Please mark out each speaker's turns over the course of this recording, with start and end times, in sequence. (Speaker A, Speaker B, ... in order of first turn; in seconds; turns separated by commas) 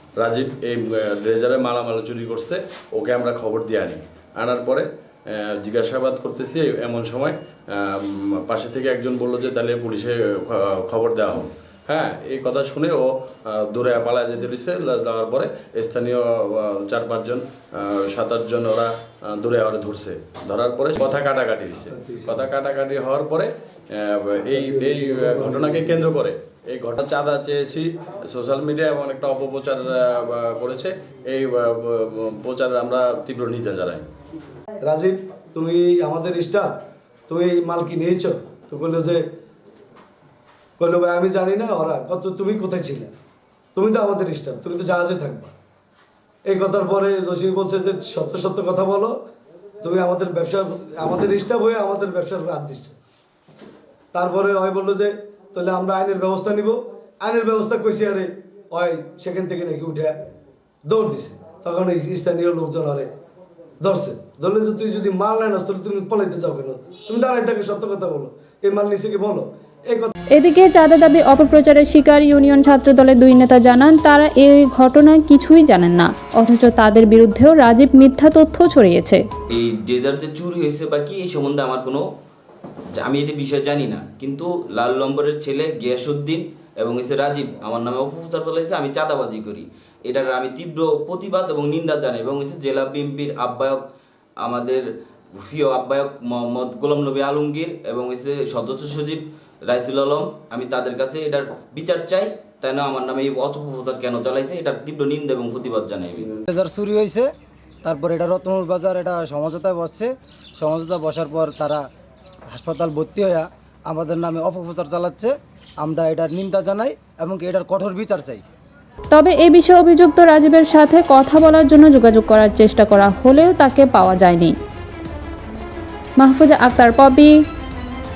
Speaker A: 0.2-34.1, Speaker B: 24.9-25.8, Speaker B: 34.8-39.2, Speaker B: 40.8-43.1, Speaker B: 43.8-45.5, Speaker B: 46.5-49.2, Speaker B: 49.8-53.0, Speaker B: 54.1-60.2, Speaker B: 60.9-63.1, Speaker B: 63.8-70.1, Speaker C: 70.3-79.2, Speaker D: 79.5-82.1, Speaker D: 83.0-93.8, Speaker D: 94.4-94.9, Speaker D: 95.4-106.3, Speaker E: 106.5-107.3, Speaker E: 107.8-111.8, Speaker E: 112.5-118.5, Speaker C: 119.1-124.5, Speaker C: 126.2-127.3